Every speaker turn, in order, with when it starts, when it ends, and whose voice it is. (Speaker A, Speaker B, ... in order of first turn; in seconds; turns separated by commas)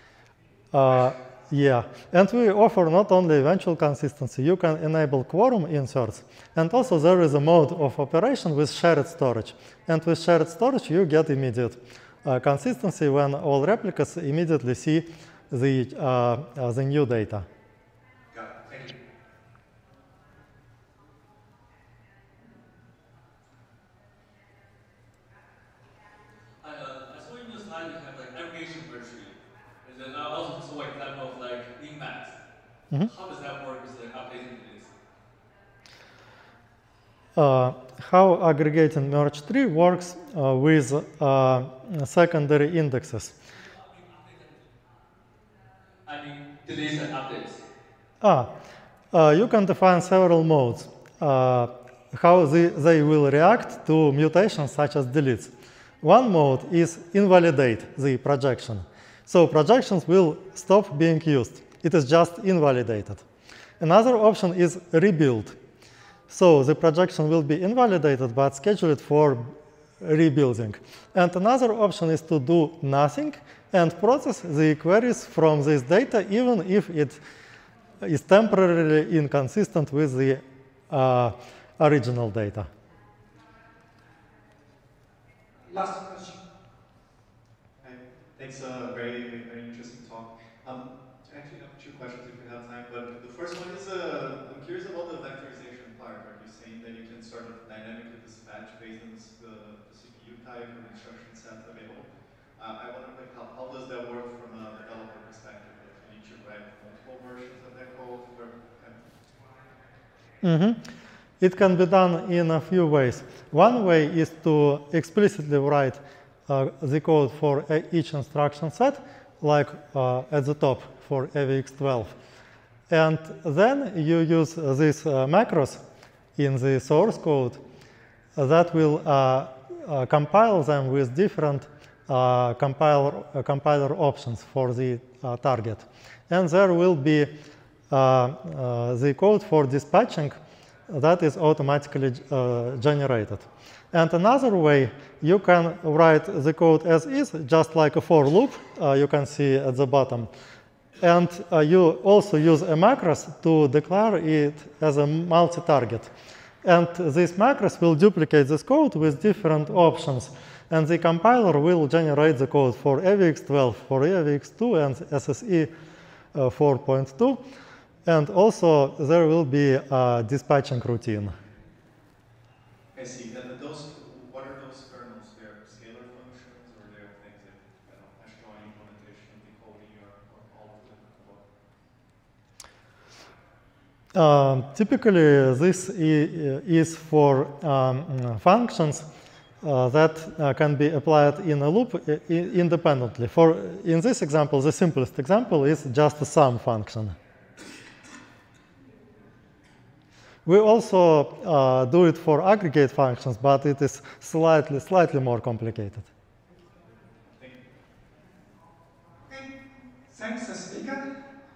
Speaker A: 0.7-17.4, Speaker B: 26.6-32.4, Speaker B: 33.0-34.9, Speaker A: 37.4-43.3, Speaker B: 43.8-44.7, Speaker B: 46.0-47.6, Speaker A: 48.2-48.5, Speaker A: 49.1-63.2, Speaker A: 63.8-65.6, Speaker A: 66.3-77.2, Speaker A: 78.0-82.7, Speaker C: 85.7-86.0, Speaker C: 87.8-109.0, Speaker A: 110.4-110.8, Speaker A: 111.4-122.1, Speaker A: 122.9-125.8, Speaker A: 126.4-127.6, Speaker A: 128.3-137.3, Speaker A: 137.9-140.4, Speaker A: 140.9-150.3, Speaker A: 151.0-156.1, Speaker A: 156.6-165.7, Speaker A: 166.3-167.4, Speaker A: 168.1-171.3, Speaker C: 172.9-181.4, Speaker A: 184.1-189.0, Speaker A: 189.6-197.1, Speaker A: 200.4-206.1, Speaker C: 207.3-207.6, Speaker C: 210.1-211.0